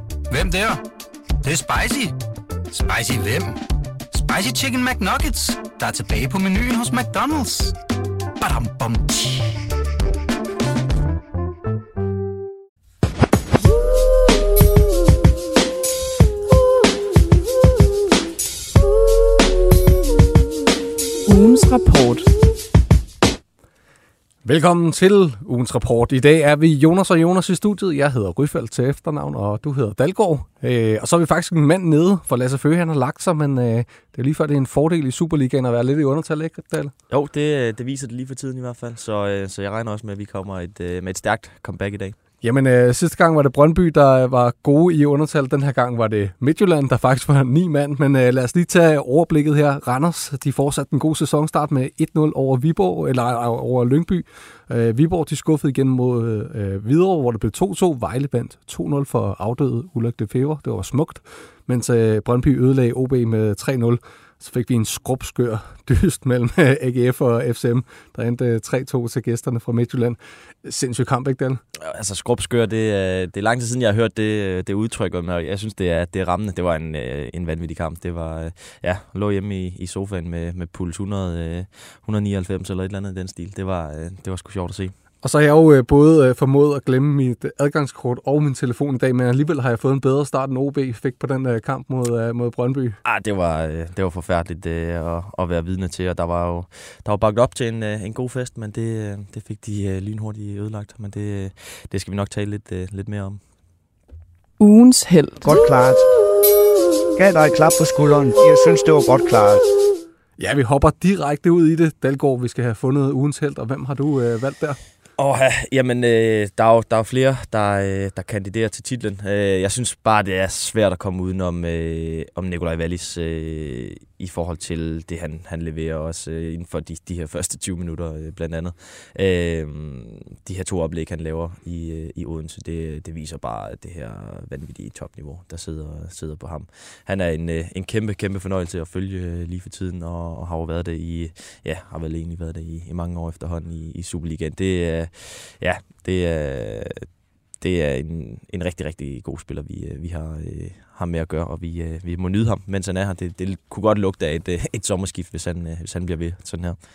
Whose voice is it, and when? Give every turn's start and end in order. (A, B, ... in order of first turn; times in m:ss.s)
0:00.3-0:00.8 A
0:01.4-0:02.1 A
0:02.7-0:03.6 A
0:04.1-0:07.7 A
0:08.4-0:09.6 A
0:21.2-0:22.3 B
0:24.4-0:36.9 C
0:37.1-0:42.2 D
0:42.4-1:11.6 C
1:11.8-1:24.9 D
1:25.2-1:33.0 C
1:33.0-1:43.4 D
1:44.6-1:45.5 B
1:45.4-1:46.0 E
1:47.2-1:49.6 E
1:50.4-1:54.8 C
1:55.2-2:27.1 D
2:27.6-2:36.8 D